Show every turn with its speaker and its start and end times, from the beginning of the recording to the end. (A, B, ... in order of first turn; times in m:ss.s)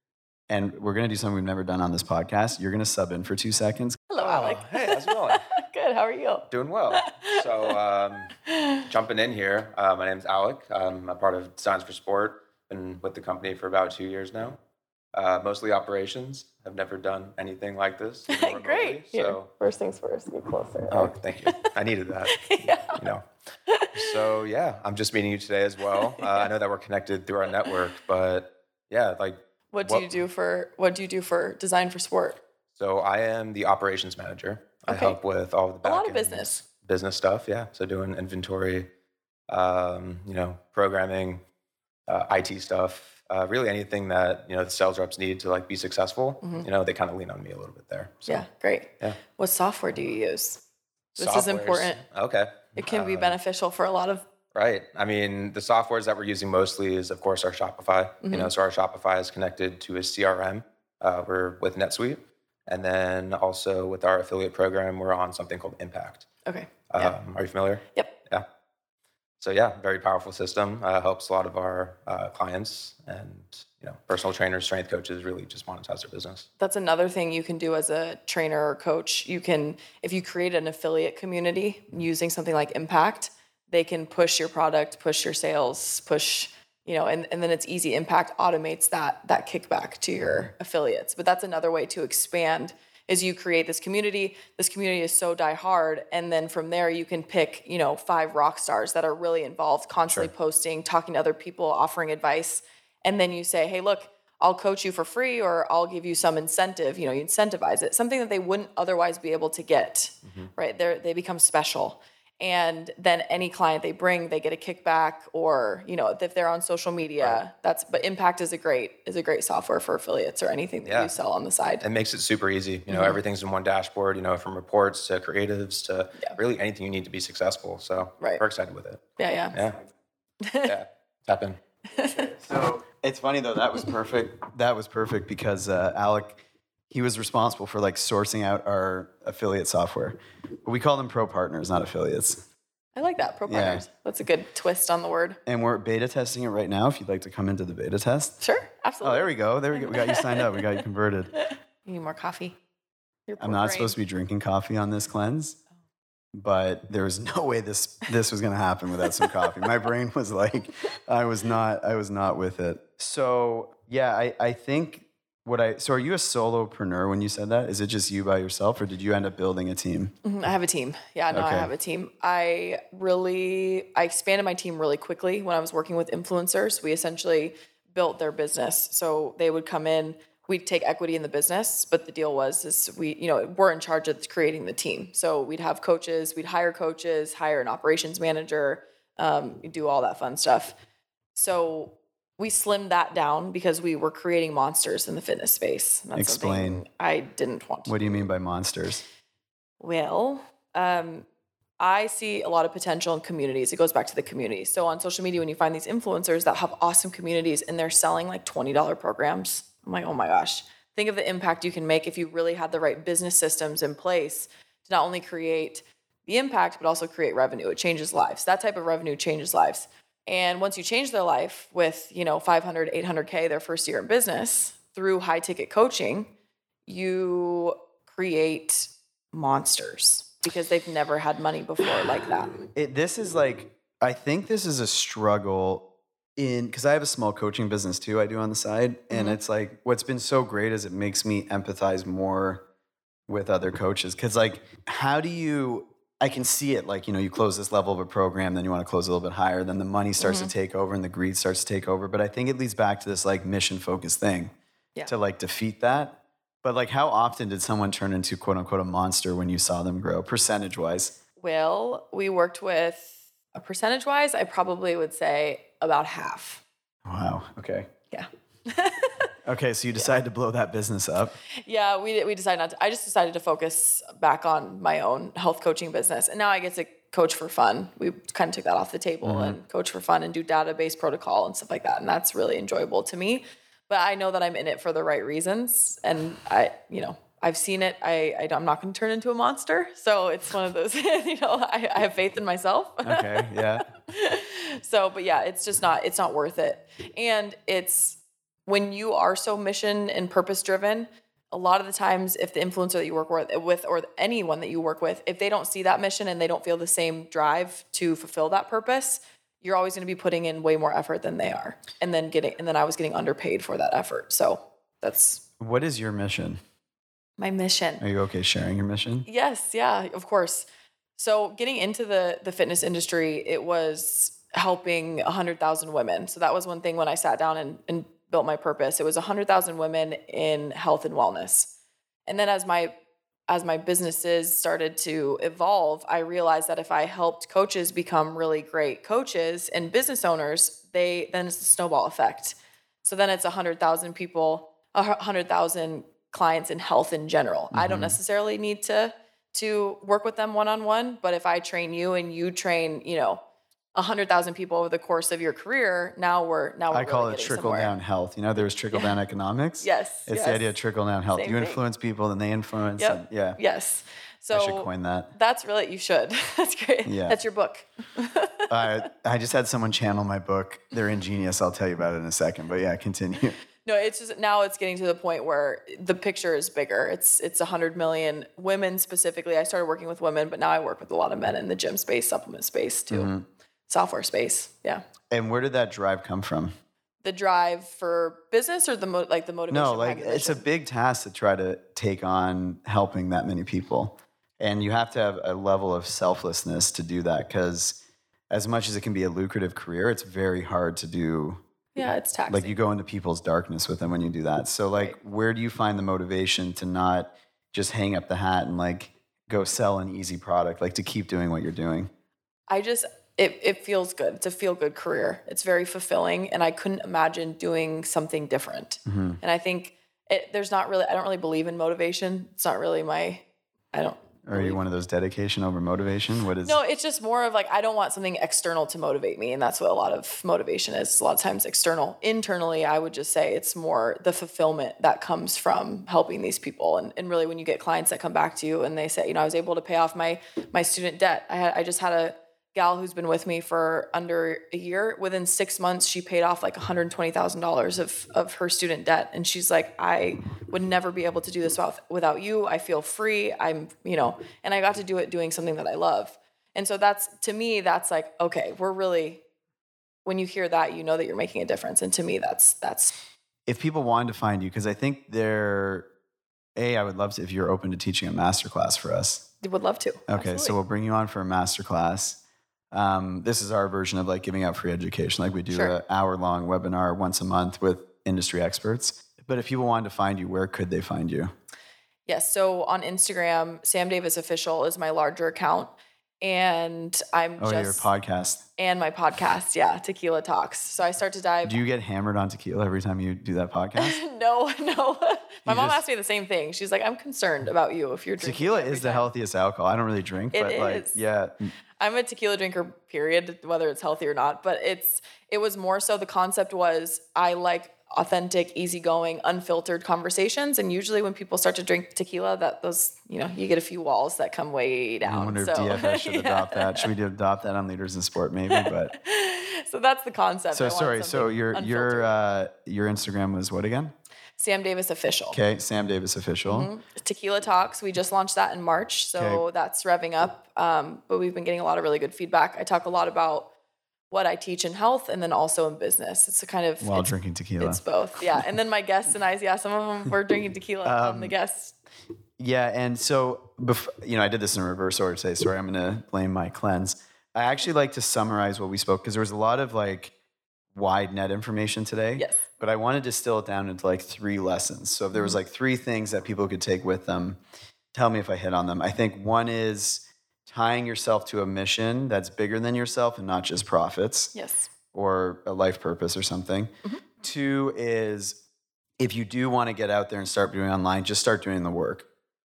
0:00.5-0:04.1 A
0:04.1-0:07.7 B
0:04.2-0:05.5 C
0:06.5-0:08.4 C
0:08.5-0:08.9 B
0:08.9-0:14.6 C
0:15.1-0:19.5 C
0:18.3-0:21.7 B
0:20.9-0:23.3 C
0:22.4-0:23.0 B
0:23.7-0:24.1 B
0:23.9-0:30.1 C
0:26.2-0:26.5 B
0:29.7-0:32.4 B
0:32.8-0:38.9 C
0:34.9-0:35.2 B
0:35.8-0:36.6 B
0:39.5-0:41.4 C
0:42.1-0:48.5 C
0:48.3-0:50.6 B
0:51.2-0:53.4 C
0:51.2-0:52.0 B
0:52.8-0:54.2 B
0:54.6-1:06.3 C
0:58.2-0:58.5 B
1:06.5-1:07.1 B
1:06.9-1:08.5 C
1:09.4-1:16.5 C
1:16.6-2:01.8 B
2:00.9-2:01.1 C
2:01.8-2:09.0 C
2:02.9-2:03.2 B
2:09.2-2:09.6 B
2:10.4-2:10.8 B
2:10.6-2:11.6 C
2:11.9-2:12.3 B
2:12.0-2:22.5 A
2:23.0-2:25.4 B
2:23.5-2:23.8 A
2:25.5-2:28.4 A
2:28.4-2:30.8 B
2:29.0-2:31.4 A
2:31.4-2:32.6 B
2:33.3-2:34.0 B
2:33.4-2:35.6 A
2:36.3-2:50.2 A
2:39.2-2:39.7 B
2:50.2-3:10.8 B
2:51.3-2:51.7 A
3:11.3-3:18.3 B
3:16.2-3:16.8 A
3:17.9-3:19.0 A
3:19.8-3:21.3 B
3:21.8-3:46.3 B
3:46.9-3:52.6 B
3:52.8-3:55.8 A
3:56.4-4:02.6 A
3:59.1-3:59.4 B
4:03.3-4:14.5 A
4:10.2-4:10.5 B
4:15.1-4:21.2 A
4:21.4-4:26.6 B
4:27.1-4:27.9 A
4:28.1-4:29.3 B
4:29.4-4:31.4 A
4:31.6-5:15.4 B
4:39.2-4:39.6 A
4:53.0-4:53.8 A
5:15.6-5:16.6 A
5:17.4-5:18.0 B
5:18.0-5:19.3 A
5:19.3-5:31.7 B
5:32.3-5:33.0 B
5:33.5-5:53.4 B
5:47.7-5:48.2 A
5:54.0-5:57.9 B
5:56.9-6:03.6 A
5:59.8-6:00.8 B
6:01.3-6:01.8 B
6:03.0-6:08.9 B
6:04.5-6:05.3 A
6:07.1-6:07.4 A
6:08.7-6:13.6 A
6:13.8-6:23.3 B
6:23.1-6:23.5 A
6:23.9-6:25.0 B
6:25.3-6:26.8 A
6:27.2-6:30.6 B
6:29.7-6:38.0 A
6:38.5-6:41.6 A
6:42.0-6:42.8 B
6:42.5-6:52.1 A
6:52.7-7:04.8 B
6:59.1-6:59.4 A
7:04.5-7:06.8 A
7:06.6-7:39.4 B
7:40.2-7:43.2 B
7:43.7-7:46.1 A
7:46.8-7:49.4 A
7:49.6-7:50.8 B
7:50.3-7:52.4 A
7:52.9-8:01.5 A
7:55.7-7:56.0 B
8:02.3-8:08.1 B
8:07.6-8:08.6 A
8:08.8-8:11.8 B
8:11.6-8:14.2 A
8:14.0-8:19.3 B
8:15.7-8:16.0 A
8:18.4-8:21.7 A
8:20.5-8:21.2 B
8:22.0-8:37.1 B
8:35.2-8:39.1 A
8:38.7-8:42.3 B
8:40.7-8:44.1 A
8:44.6-8:45.6 B
8:45.5-8:46.9 A
8:46.7-8:53.7 B
8:49.4-8:49.6 A
8:54.3-9:02.0 B
8:57.0-8:58.0 A
9:01.0-9:01.6 A
9:02.6-9:10.3 A
9:10.9-9:17.6 A
9:12.4-9:12.6 B
9:18.1-9:24.5 A
9:24.6-9:24.9 B
9:25.1-9:26.9 A
9:27.4-9:28.6 A
9:29.2-9:32.3 A